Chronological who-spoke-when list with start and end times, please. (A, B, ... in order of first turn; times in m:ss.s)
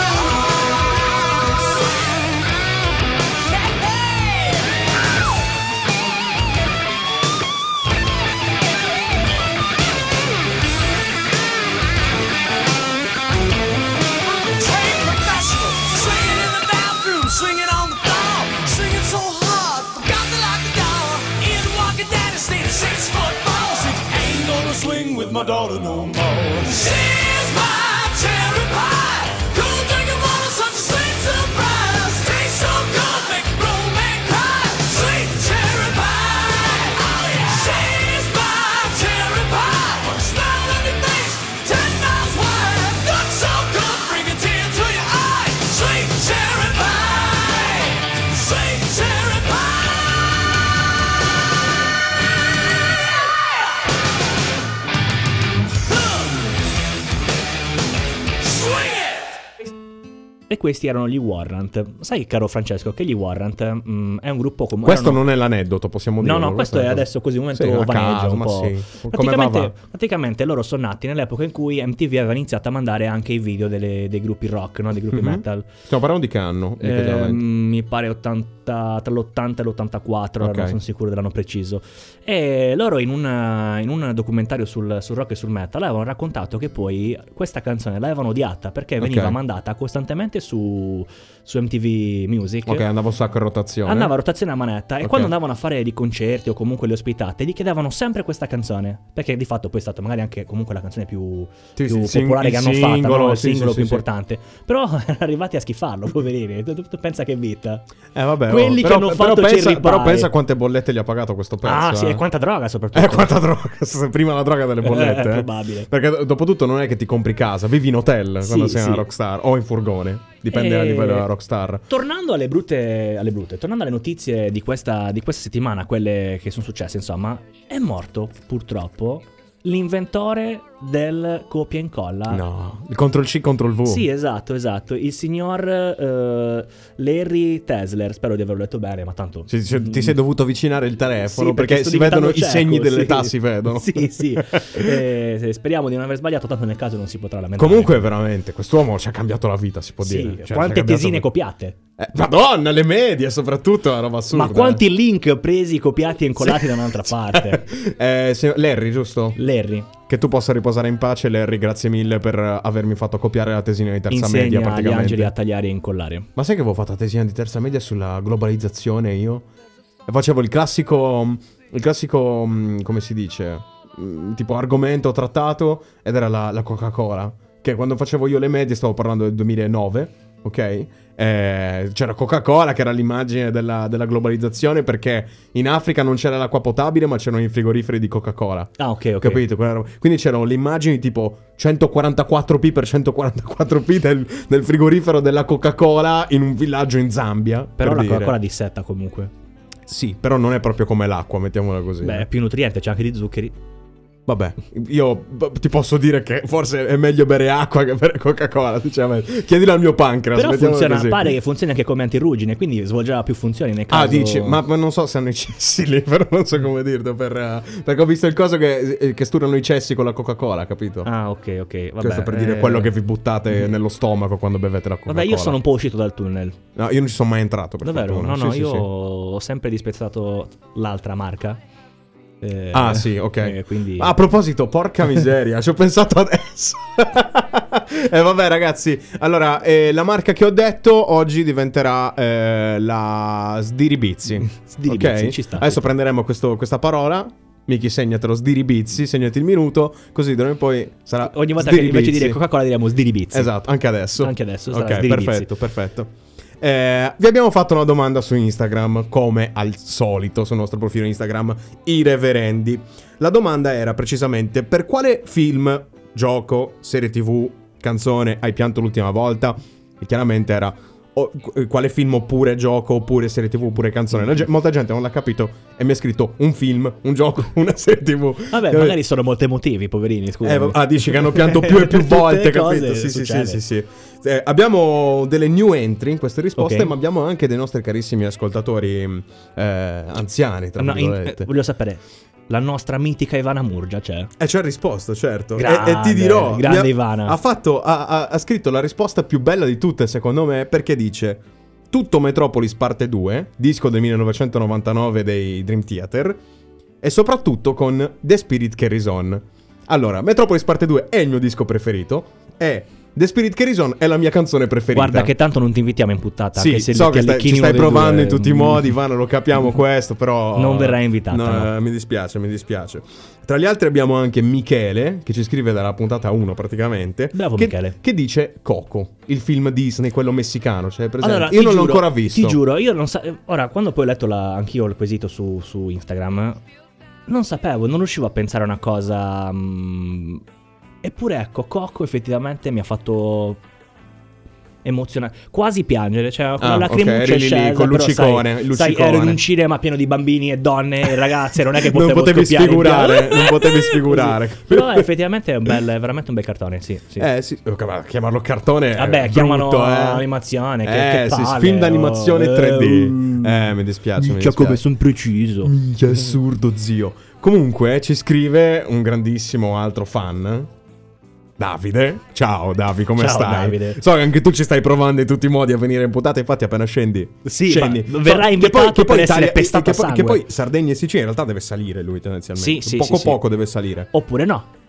0:14.5-0:50.0 A
1:00.5-1:05.2 B
1:04.8-1:09.7 C
1:06.2-1:15.7 B
1:15.1-1:17.4 C
1:16.8-1:32.8 B
1:20.4-1:20.8 C
1:29.0-1:29.4 C
1:32.6-1:34.1 C
1:33.8-1:47.8 B
1:35.0-1:35.3 C
1:41.8-1:44.0 C
1:48.1-1:52.2 C
1:48.4-1:50.3 B
1:51.6-1:53.4 B
1:52.9-2:01.8 C
1:54.8-1:55.9 B
1:58.4-1:59.0 B
2:00.5-2:01.3 B
2:01.9-2:12.4 B
2:12.3-2:14.0 C
2:13.8-2:20.1 B
2:19.5-2:25.0 C
2:21.3-2:28.1 B
2:27.6-2:31.3 C
2:30.0-2:31.8 B
2:32.0-2:34.8 C
2:34.3-2:37.6 B
2:36.4-2:39.4 C
2:39.4-2:39.9 B
2:40.0-2:45.3 C
2:44.1-2:46.3 B
2:46.4-2:49.4 C
2:50.1-3:18.3 C
3:08.8-3:09.4 B
3:17.8-3:19.3 B
3:19.9-3:22.3 C
3:22.0-3:23.5 B
3:24.2-3:31.3 C
3:30.3-3:34.6 B
3:33.9-3:41.1 C
3:41.0-3:42.9 B
3:42.0-3:45.6 C
3:45.1-3:46.6 B
3:46.8-3:48.8 C
3:47.8-3:51.6 B
3:52.4-3:54.1 B
3:52.7-4:12.4 C
4:04.4-4:05.9 B
4:11.2-4:13.5 B
4:13.3-4:39.0 C
4:14.2-4:15.5 B
4:38.5-4:43.6 B
4:40.4-4:51.5 C
4:46.6-4:46.9 B
4:50.8-4:54.3 B
4:54.4-5:06.4 C
4:55.6-4:57.4 B
5:07.0-5:15.3 C
5:14.9-5:18.9 B
5:16.6-5:32.6 C
5:20.5-5:21.7 B
5:27.3-5:28.0 B
5:31.2-5:36.6 B
5:37.3-5:40.4 B
5:41.0-5:43.6 B
5:44.8-5:57.3 B
5:46.6-5:49.4 C
5:51.7-5:55.1 C
5:57.2-6:00.3 C
5:58.9-6:03.6 B
6:00.8-6:04.8 C
6:04.2-6:05.7 B
6:05.6-6:10.7 C
6:11.6-6:24.1 C
6:13.2-6:14.0 B
6:17.4-6:20.4 B
6:22.6-6:23.4 B
6:24.1-6:24.7 B